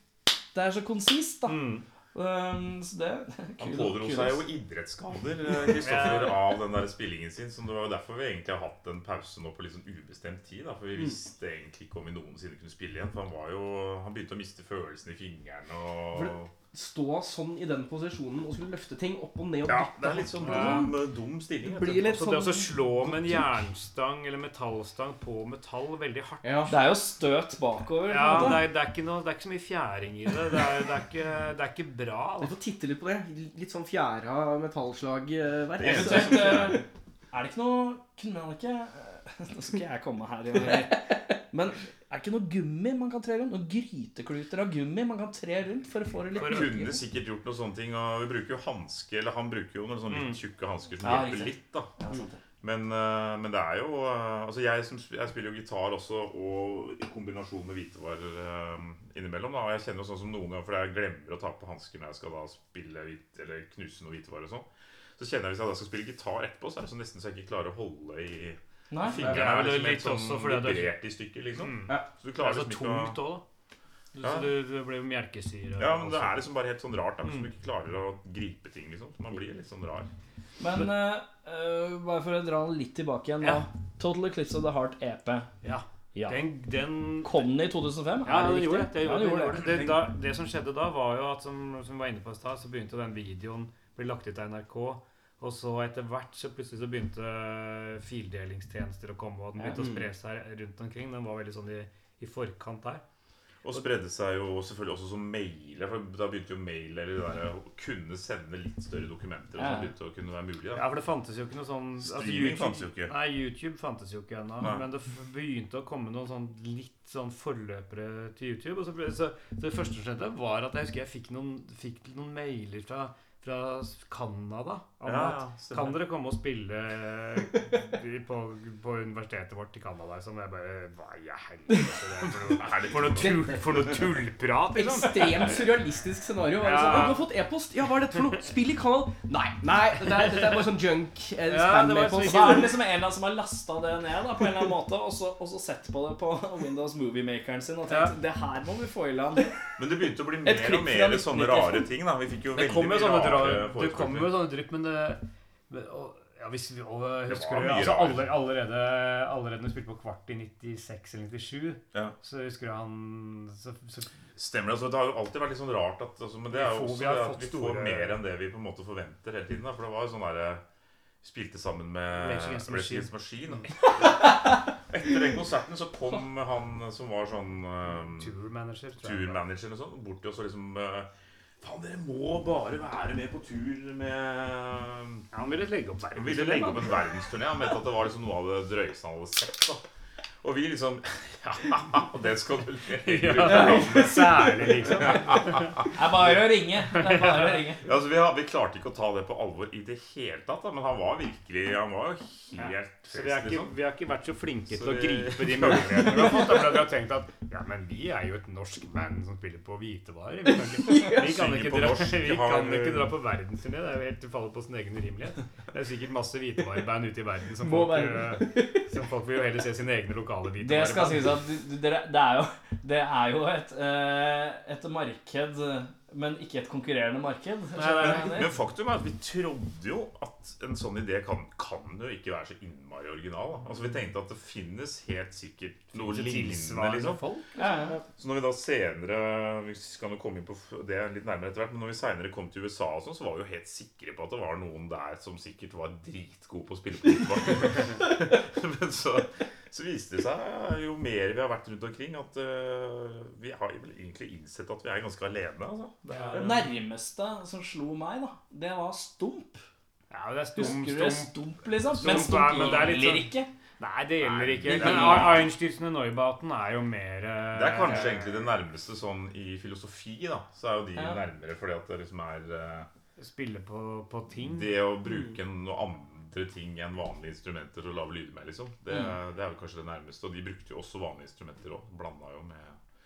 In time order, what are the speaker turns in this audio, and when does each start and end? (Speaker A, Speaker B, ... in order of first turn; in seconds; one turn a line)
Speaker A: 0.5-4.5
Speaker B: 1.5-1.9
Speaker C: 3.6-16.5
Speaker B: 5.7-6.5
Speaker D: 16.1-20.9
Speaker C: 19.6-22.2
Speaker B: 20.4-21.0
Speaker D: 21.6-23.5
Speaker B: 22.0-26.8
Speaker D: 26.4-26.7
Speaker A: 26.7-28.7
Speaker B: 28.1-32.5
Speaker D: 32.4-36.8
Speaker C: 35.8-36.8
Speaker A: 35.9-47.0
Speaker B: 46.4-47.0
Speaker C: 46.4-51.9
Speaker B: 50.1-50.4
Speaker A: 51.0-52.4
Speaker C: 52.6-64.7
Speaker C: 65.2-73.2
Speaker A: 68.9-69.2
Speaker B: 69.2-71.0
Speaker B: 71.5-73.4
Speaker B: 74.2-76.4
Speaker C: 74.2-74.5
Speaker C: 75.8-80.1
Speaker B: 77.2-77.5
Speaker A: 80.6-85.5
Speaker B: 83.4-83.7
Speaker B: 85.6-87.5
Speaker A: 86.1-86.4
Speaker A: 87.2-89.8
Speaker B: 88.2-103.0
Speaker D: 89.6-90.0
Speaker D: 99.7-100.1
Speaker C: 103.6-110.8
Speaker A: 109.6-109.9
Speaker B: 110.7-135.8
Speaker C: 112.0-113.1
Speaker C: 114.6-114.9
Speaker C: 125.0-126.0
Speaker C: 132.4-134.1
Speaker D: 134.7-142.8
Speaker B: 136.6-137.3
Speaker B: 140.0-140.7
Speaker B: 141.5-142.8
Speaker A: 142.2-149.6
Speaker B: 147.9-148.2
Speaker C: 149.8-154.5
Speaker A: 150.4-151.9
Speaker B: 152.5-164.1
Speaker C: 157.3-158.4
Speaker C: 164.4-170.6
Speaker B: 166.5-168.2
Speaker C: 171.2-178.4
Speaker B: 172.1-173.1
Speaker B: 178.2-179.4
Speaker C: 179.0-181.1
Speaker C: 181.6-185.3
Speaker B: 185.3-187.0
Speaker C: 186.2-189.8
Speaker C: 190.4-195.9
Speaker B: 193.0-195.8
Speaker A: 195.9-197.8
Speaker B: 196.9-197.6
Speaker C: 197.8-203.7
Speaker B: 202.6-221.4
Speaker C: 204.7-206.9
Speaker C: 211.0-213.1
Speaker D: 217.6-218.9
Speaker A: 220.6-228.5
Speaker B: 227.8-228.6
Speaker C: 228.0-237.2
Speaker B: 235.9-237.5
Speaker A: 237.6-238.0
Speaker C: 238.1-256.6
Speaker B: 256.1-256.7
Speaker A: 256.3-259.6
Speaker B: 260.1-268.5
Speaker A: 260.6-263.5
Speaker C: 264.2-265.5
Speaker A: 264.7-265.4
Speaker C: 267.5-272.9
Speaker A: 270.9-271.2
Speaker B: 273.2-274.8
Speaker C: 274.4-282.8